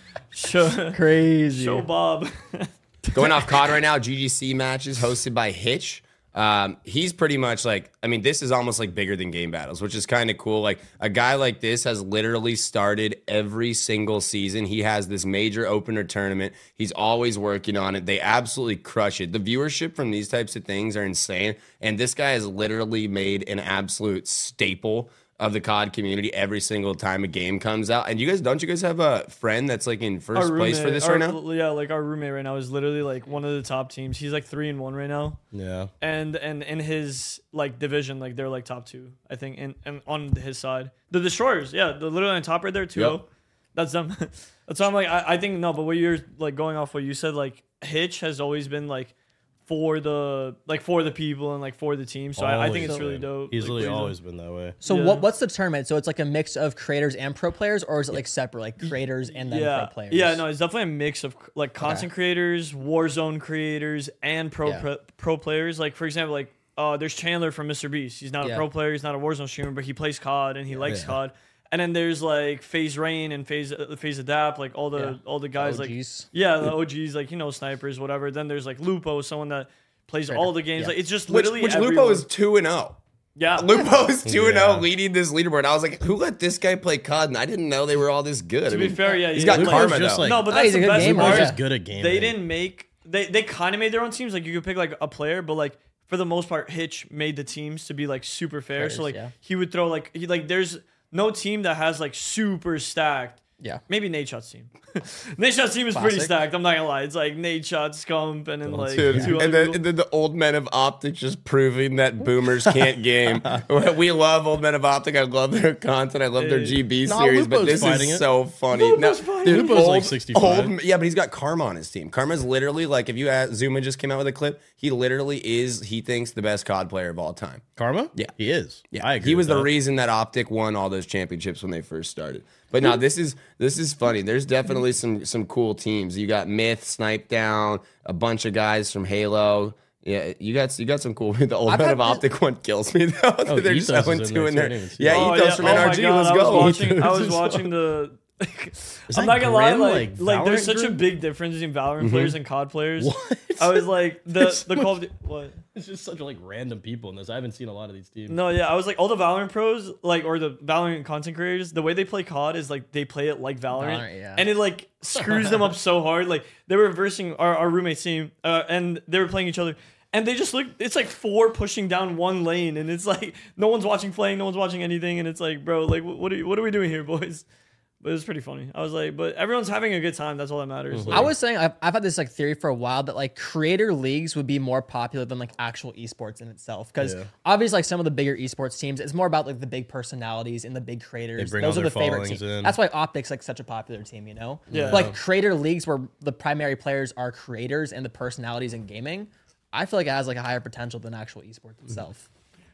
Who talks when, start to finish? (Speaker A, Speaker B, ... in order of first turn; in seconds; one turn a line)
Speaker A: 0.3-3.5
Speaker B: 0.9-1.9
Speaker C: 3.1-31.4
Speaker A: 30.3-35.4
Speaker D: 35.5-35.9
Speaker A: 36.0-49.1
Speaker A: 49.7-54.2
Speaker D: 52.4-54.8
Speaker B: 54.8-60.4
Speaker A: 54.8-55.2
Speaker A: 59.4-82.3
Speaker B: 61.8-62.1
Speaker B: 70.7-71.0
Speaker D: 70.9-71.2
Speaker B: 74.9-76.3
Speaker B: 80.3-81.0
Speaker C: 81.3-83.0
Speaker A: 83.4-83.7
Speaker C: 83.6-90.3
Speaker D: 84.2-84.9
Speaker A: 88.7-109.8
Speaker D: 89.5-92.4
Speaker B: 90.4-91.6
Speaker B: 98.8-99.3
Speaker B: 105.9-106.4
Speaker D: 108.7-109.4
Speaker C: 109.0-128.3
Speaker D: 112.7-113.6
Speaker A: 116.4-116.8
Speaker D: 117.0-118.3
Speaker A: 118.7-119.9
Speaker D: 119.5-120.8
Speaker D: 127.8-129.7
Speaker C: 128.9-146.8
Speaker B: 141.7-142.2
Speaker D: 143.5-147.7
Speaker A: 145.1-155.6
Speaker D: 149.1-151.0
Speaker C: 152.0-152.3
Speaker D: 153.0-155.0
Speaker D: 155.7-158.4
Speaker A: 158.3-177.4
Speaker B: 163.7-164.5
Speaker B: 165.2-165.7
Speaker A: 178.0-181.3
Speaker D: 180.9-181.3
Speaker B: 181.1-202.3
Speaker D: 187.0-187.3
Speaker D: 191.4-192.8
Speaker D: 194.7-195.1
Speaker A: 194.7-195.1